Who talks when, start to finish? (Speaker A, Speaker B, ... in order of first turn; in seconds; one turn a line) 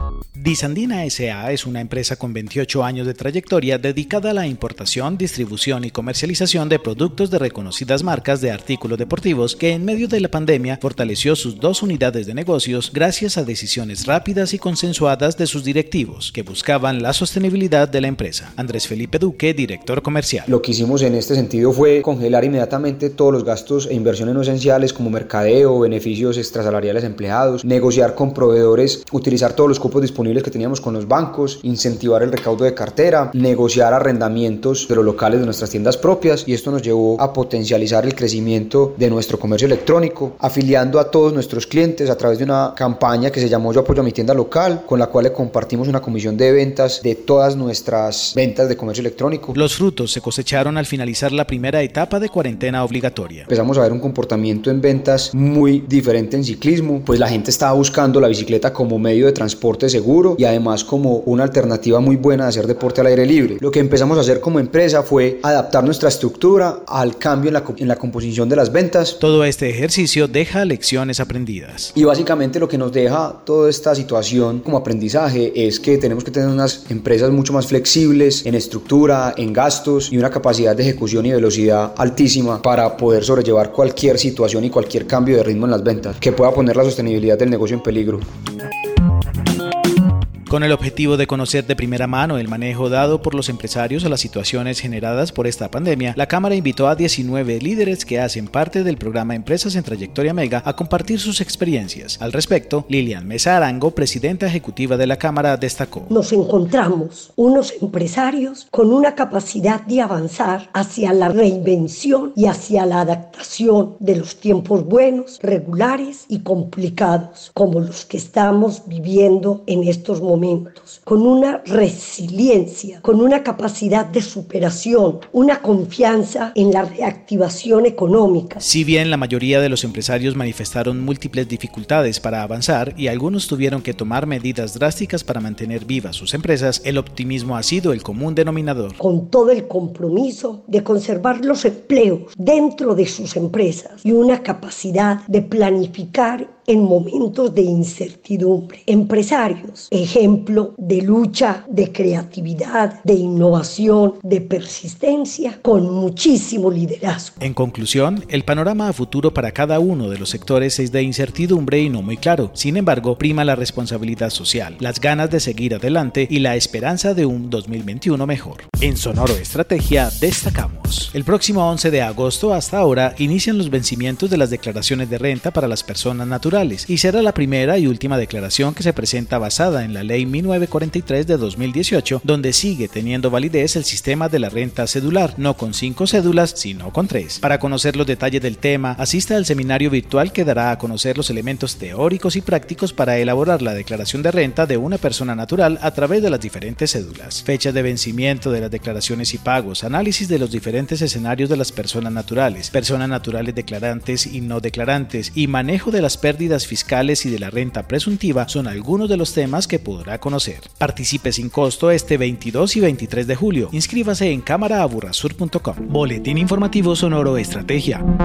Speaker A: 0.4-20.5
Speaker B: 20.5-49.6
Speaker A: 49.5-53.5
Speaker B: 53.5-69.2
Speaker A: 69.2-71.9
Speaker B: 71.9-88.2
Speaker A: 90.5-106.2
Speaker C: 106.1-128.6
Speaker A: 128.6-139.0
Speaker C: 139.0-157.4
Speaker A: 157.4-218.0